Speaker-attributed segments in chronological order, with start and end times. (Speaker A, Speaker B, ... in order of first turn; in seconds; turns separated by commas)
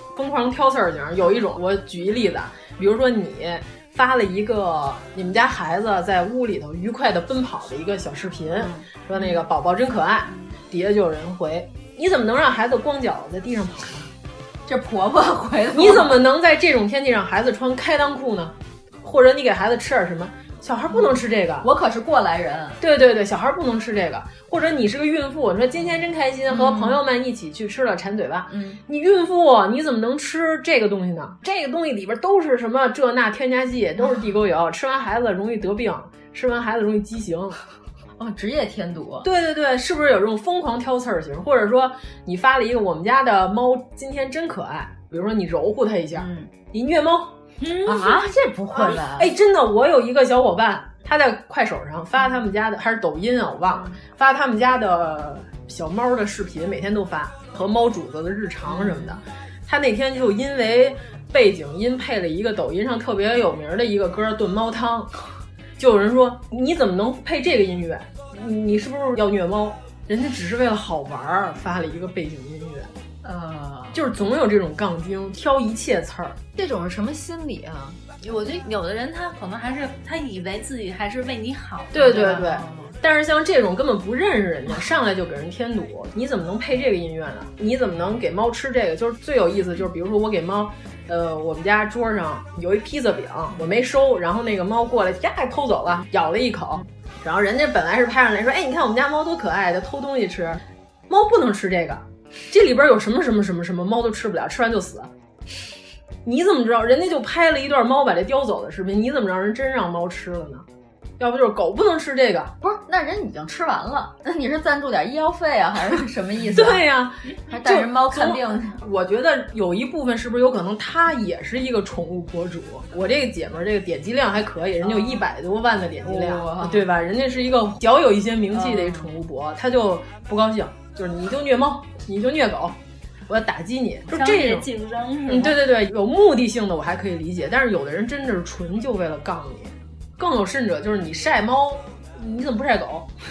Speaker A: 0.1-14.1, Speaker B: 8.6-8.8, Speaker B: 14.7-16.2, Speaker A: 15.7-21.7, Speaker B: 20.9-22.8, Speaker A: 22.8-37.6, Speaker B: 26.5-27.0, Speaker B: 28.5-28.8, Speaker B: 38.2-39.3, Speaker A: 39.2-47.3, Speaker B: 46.1-46.5, Speaker C: 47.6-48.1, Speaker B: 47.8-49.3, Speaker A: 48.7-65.1, Speaker B: 58.7-59.2, Speaker A: 65.8-72.9, Speaker B: 73.2-74.0, Speaker A: 73.9-76.4, Speaker B: 76.5-78.0, Speaker C: 78.2-82.3, Speaker A: 81.9-105.1, Speaker B: 82.0-82.9, Speaker A: 106.2-110.6, Speaker A: 111.2-112.5, Speaker B: 112.6-116.8, Speaker A: 116.5-132.7, Speaker B: 117.5-118.8, Speaker B: 124.8-125.2, Speaker B: 126.0-126.8, Speaker B: 128.5-129.1, Speaker A: 133.3-134.7, Speaker C: 134.1-135.6, Speaker A: 135.3-143.1